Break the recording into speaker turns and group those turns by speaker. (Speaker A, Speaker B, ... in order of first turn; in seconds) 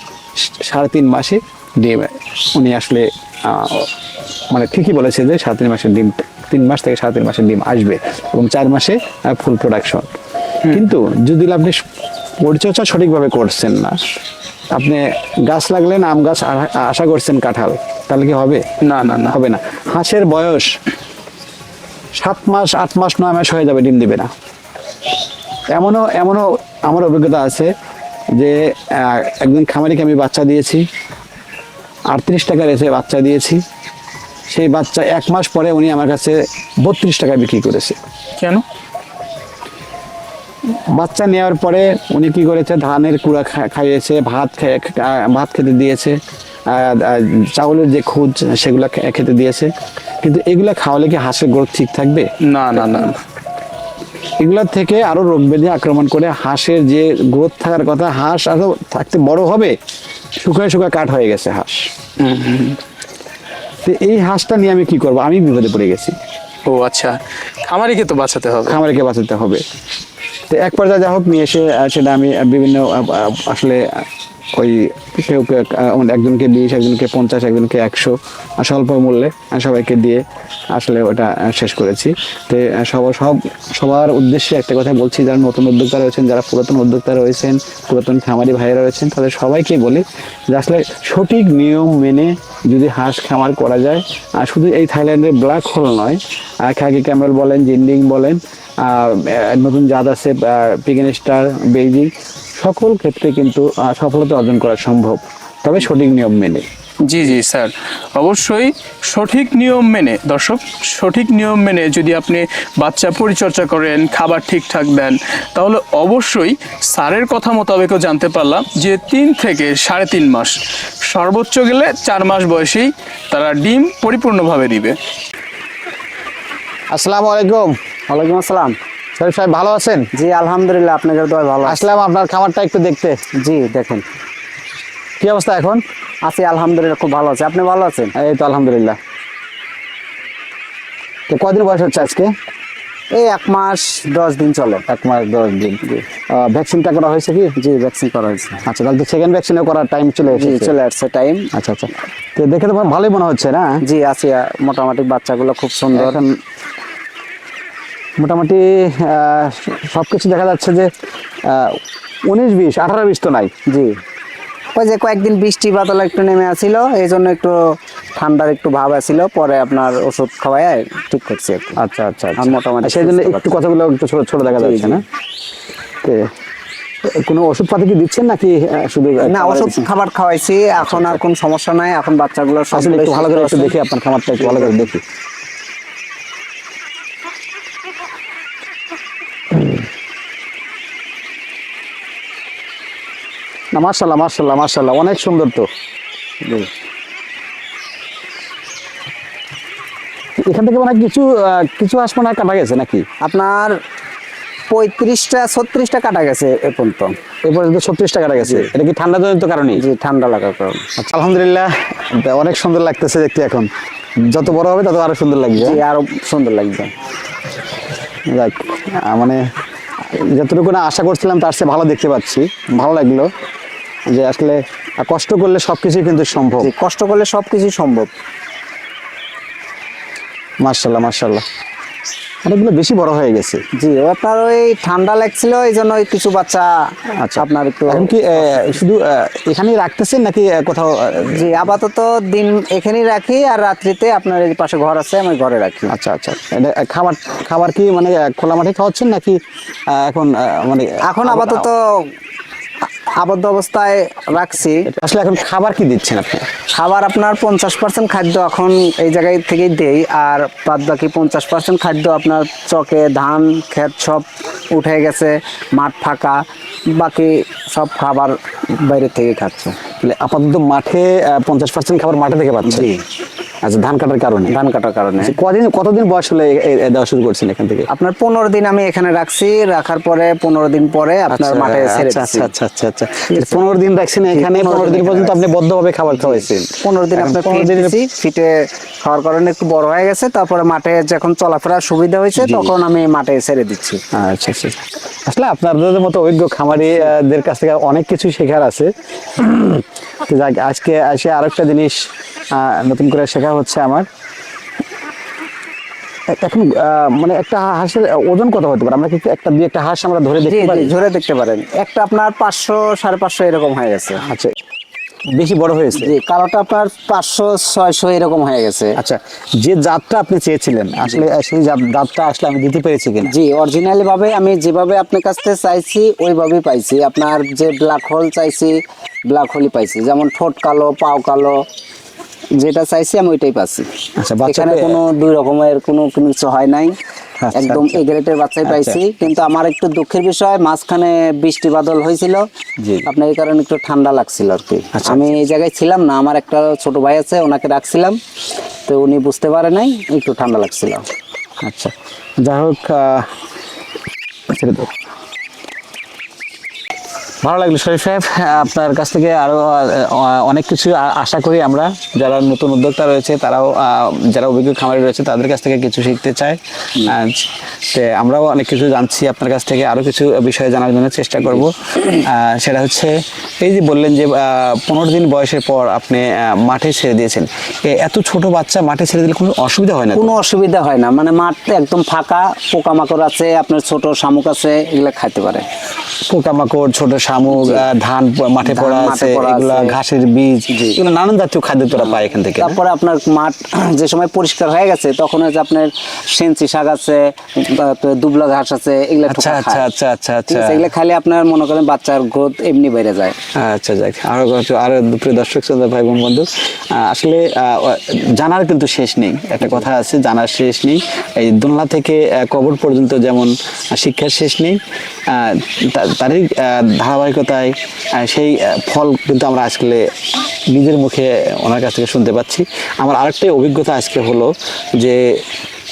Speaker A: 0.6-3.9, 4.5-10.1, 10.6-11.8, 12.4-14.0, 14.7-18.6, 19.2-20.7, 22.2-24.3, 25.7-27.7, 28.4-30.8, 32.1-33.6, 34.5-38.0, 40.9-49.7, 50.2-52.3, 54.4-59.8, 60.4-61.9, 63.8-66.1, 68.7-69.6, 70.5-106.7, 126.9-127.7, 129.2-130.1, 131.6-133.2, 135.2-135.8, 138.1-139.0, 141.3-142.3, 144.9-147.5, 148.6-150.7, 151.5-153.8, 155.9-156.3, 158.2-160.9, 161.4-163.5, 171.8-175.0, 177.2-179.9, 180.8-181.2, 182.7-185.0, 193.7-195.7, 200.4-203.1, 207.4-209.8, 211.0-213.7, 214.3-215.8, 218.3-219.4, 220.0-223.3, 224.1-226.7, 230.6-231.4, 232.4-233.6, 237.2-241.6, 245.9-251.7, 254.8-256.5, 270.0-272.9, 273.6-274.5, 275.2-277.9, 281.3-287.9, 292.4-292.7, 294.1-302.0, 302.5-304.1, 306.3-310.9, 314.2-314.5, 315.3-316.1, 318.9-323.3, 334.2-335.0, 337.4-338.0, 338.6-339.0, 342.8-343.1, 344.9-345.3, 351.6-353.3, 354.5-354.9, 357.4-380.4, 386.3-392.8, 399.3-400.9, 403.6-420.1, 420.7-425.4
Speaker B: 18.8-19.4, 38.4-38.6, 52.4-53.2, 62.2-62.8, 66.7-68.8, 107.0-120.6, 121.1-125.0
Speaker C: 128.1-128.8, 130.1-131.8, 133.4-134.0, 136.2-138.1, 143.1-144.8, 147.6-148.6, 150.3-151.5, 153.8-156.2, 164.7-167.6, 168.2-171.8, 172.4-173.6, 174.4-175.0, 179.2-183.8, 184.4-184.9, 203.2-203.7, 204.7-207.1, 208.4-208.7, 209.8-210.8, 215.6-216.9, 226.6-228.1, 233.8-236.7, 237.4-238.7, 241.3-245.9, 251.0-252.1, 253.2-254.9, 256.8-266.4, 266.9-269.8, 272.6-273.0, 274.5-275.3, 277.9-282.5, 283.3-283.6, 284.3-285.4, 286.2-294.0, 310.5-314.2, 315.9-319.0, 323.2-328.7, 329.3-331.6, 332.6-333.9, 334.5-336.9, 337.5-342.4, 343.1-348.1, 348.9-351.0, 380.1-385.6, 387.5-387.9, 388.6-390.0, 390.7-391.0, 392.0-399.9, 400.5-403.4